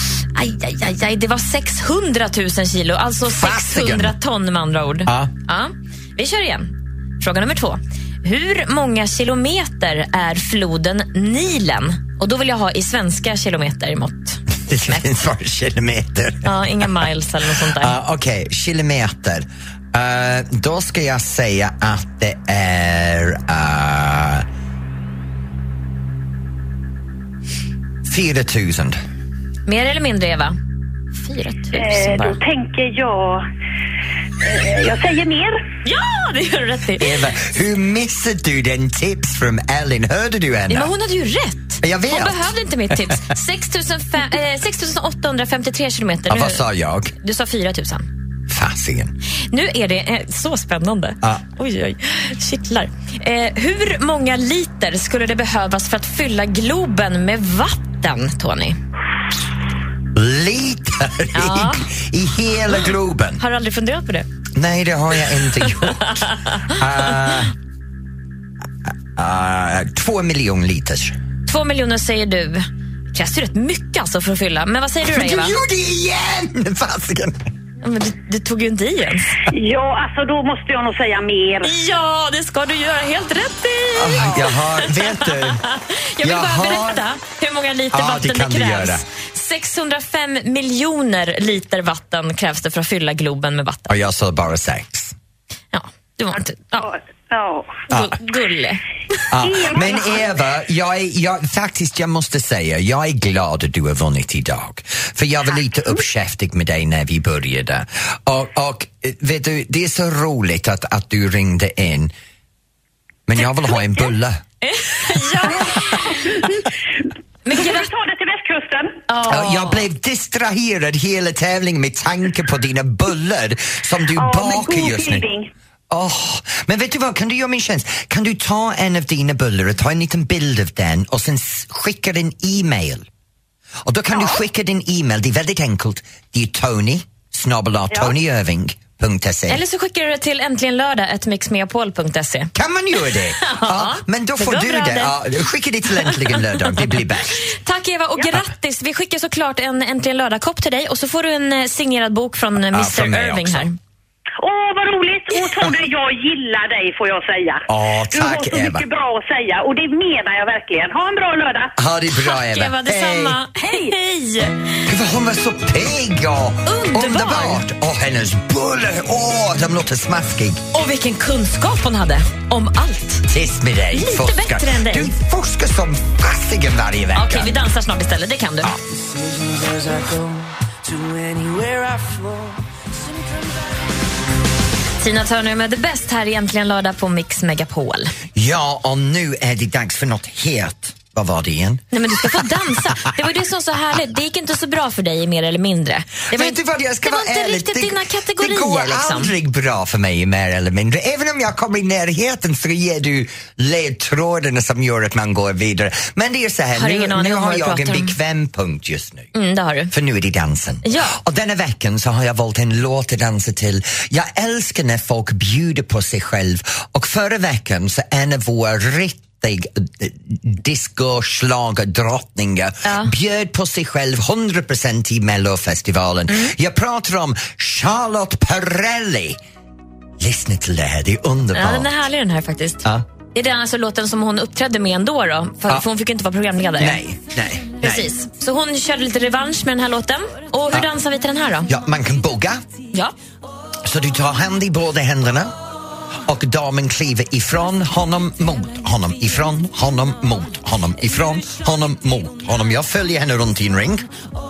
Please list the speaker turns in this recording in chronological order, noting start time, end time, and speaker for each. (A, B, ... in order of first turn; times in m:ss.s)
0:00.3-0:14.4 A
0:03.3-0:04.2 B
0:05.1-0:05.3 B
0:14.6-0:16.9 B
0:16.4-0:18.0 A
0:17.6-0:24.5 B
0:28.0-0:29.0 B
0:29.7-0:30.6 A
0:31.2-0:32.4 A
0:31.7-0:33.5 C
0:34.4-0:35.6 C
0:35.8-0:37.2 A
0:37.0-0:40.9 B
0:40.7-0:46.6 A
0:41.8-0:42.5 B
0:46.3-0:47.1 B
0:47.2-0:48.1 A
0:48.5-0:49.2 B
0:49.5-0:58.8 A
1:00.1-1:03.4 B
1:01.3-1:01.9 A
1:03.4-1:04.3 A
1:04.6-1:06.2 B
1:06.2-1:06.8 A
1:06.8-1:07.5 B
1:09.2-1:11.2 B
1:11.5-1:15.6 A
1:15.1-1:17.5 B
1:17.8-1:19.4 A
1:19.5-1:21.7 C
1:21.6-1:33.9 A
1:24.0-1:25.6 B
1:26.2-1:27.0 B
1:27.9-1:29.0 B
1:33.9-1:35.2 B
1:35.7-1:36.9 A
1:36.8-1:37.8 C
1:37.9-1:39.2 A
1:39.3-1:52.1 B
1:39.4-1:40.2 C
1:53.3-1:54.4 B
1:54.6-1:56.5 A
1:57.4-1:57.9 A
1:57.5-1:59.0 C
1:59.1-1:59.8 A
1:59.3-2:05.2 B
2:04.2-2:05.5 C
2:05.9-2:13.1 B
2:13.8-2:19.6 B
2:14.1-2:14.4 C
2:19.5-2:22.5 A
2:22.5-2:27.4 B
2:23.4-2:25.2 A
2:26.0-2:26.3 A
2:27.5-2:33.8 A
2:32.6-2:33.7 B
2:34.4-2:41.7 C
2:37.7-2:38.8 B
2:41.8-2:43.4 B
2:42.1-2:44.8 A
2:44.9-2:50.6 B
2:46.7-2:47.6 A
2:50.7-2:53.3 A
2:53.3-2:57.5 B
2:53.9-2:55.1 A
2:57.1-2:58.8 A
2:59.9-3:02.4 D
3:05.0-3:08.1 A
3:08.3-3:12.4 B
3:11.9-3:19.3 A
3:16.3-3:29.3 B
3:26.8-3:28.2 A
3:29.3-3:29.9 A
3:29.9-3:49.4 B
3:30.8-3:31.2 A
3:42.8-3:43.1 A
3:46.3-3:46.5 A
3:50.2-3:51.9 B
3:51.5-3:57.0 A
3:56.8-3:58.1 B
3:57.8-4:01.7 A
4:01.7-4:02.6 B
4:03.8-4:05.6 B
4:06.2-4:14.1 B